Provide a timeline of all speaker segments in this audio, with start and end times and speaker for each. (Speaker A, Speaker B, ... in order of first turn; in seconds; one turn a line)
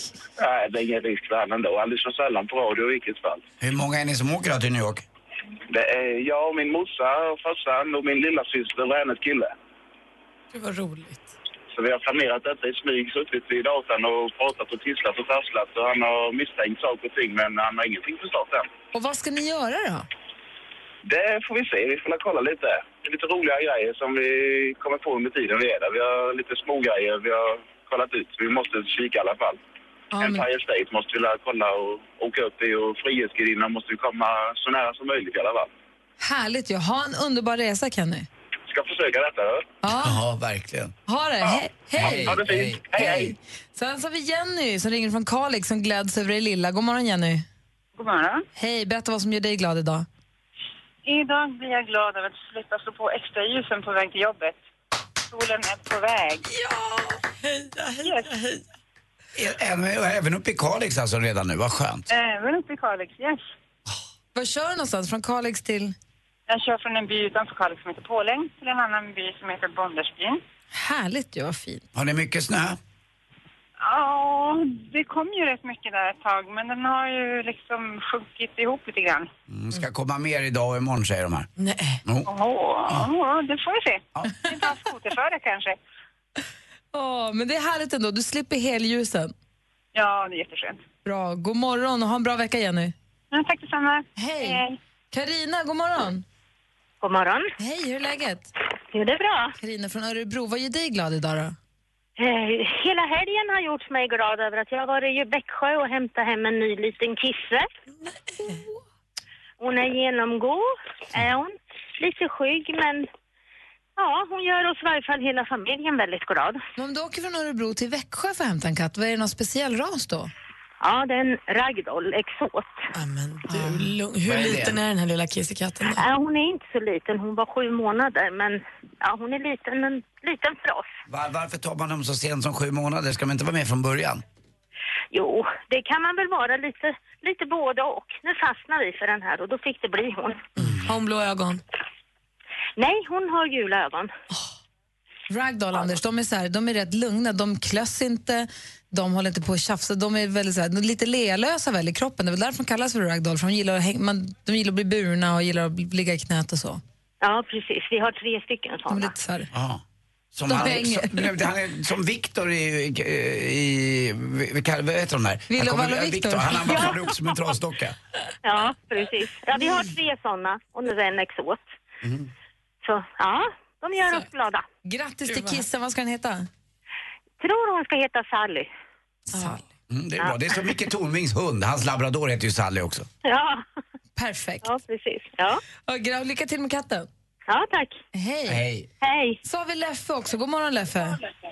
Speaker A: 0.4-3.4
Speaker B: 3.6-5.0
Speaker A: 5.7-9.5
Speaker C: 10.5-11.3
Speaker A: 11.7-18.7
Speaker D: 18.9-20.1
Speaker A: 21.1-29.6
Speaker D: 30.1-30.4
Speaker A: 30.2-35.7
Speaker D: 36.2-38.3
Speaker A: 38.7-39.7
Speaker D: 39.8-40.2
Speaker B: 39.9-40.9
Speaker D: 41.1-42.4
Speaker A: 41.5-43.3
Speaker B: 42.0-43.3
Speaker D: 43.0-47.5
Speaker E: 48.0-48.4
Speaker D: 48.5-50.1
Speaker E: 51.0-54.6
Speaker E: 55.3-56.5
Speaker C: 56.5-58.6
Speaker E: 58.0-58.3
Speaker B: 59.3-62.0
Speaker E: 62.1-63.5
Speaker D: 64.3-65.9
Speaker E: 66.5-70.4
Speaker D: 70.7-71.8
Speaker B: 71.9-72.8
Speaker E: 73.8-79.3
Speaker B: 79.5-81.5
Speaker C: 81.6-82.0
Speaker E: 82.2-85.8
Speaker D: 86.9-89.3
Speaker E: 89.9-90.8
Speaker D: 91.0-92.9
Speaker E: 93.3-94.8
Speaker D: 94.2-96.2
Speaker F: 97.0-97.5
Speaker D: 97.6-98.5
Speaker F: 98.9-99.5
Speaker D: 99.6-101.5
Speaker F: 102.2-107.7
Speaker C: 108.1-108.5
Speaker F: 109.6-113.1
Speaker F: 114.0-116.6
Speaker D: 116.8-120.3
Speaker F: 120.8-122.9
Speaker C: 122.9-126.0
Speaker D: 123.5-123.9
Speaker B: 124.2-124.8
Speaker F: 126.0-130.9
Speaker B: 131.1-134.2
Speaker F: 135.1-140.4
Speaker C: 140.6-141.6
Speaker F: 142.8-144.1
Speaker D: 145.3-156.8
Speaker F: 157.2-159.1
Speaker D: 158.9-159.5
Speaker B: 159.5-159.8
Speaker B: 160.3-168.0
Speaker D: 160.5-161.3
Speaker D: 165.5-166.9
Speaker F: 168.4-171.7
Speaker B: 172.0-172.3
Speaker F: 172.8-174.6
Speaker D: 174.8-176.5
Speaker C: 175.3-175.6
Speaker F: 177.4-178.7
Speaker D: 179.3-179.6
Speaker B: 179.9-183.1
Speaker F: 183.2-183.7
Speaker D: 184.2-184.7
Speaker F: 184.6-185.6
Speaker D: 185.8-187.1
Speaker F: 187.5-188.0
Speaker D: 188.1-188.6
Speaker B: 188.5-188.9
Speaker F: 189.0-189.4
Speaker D: 189.4-191.2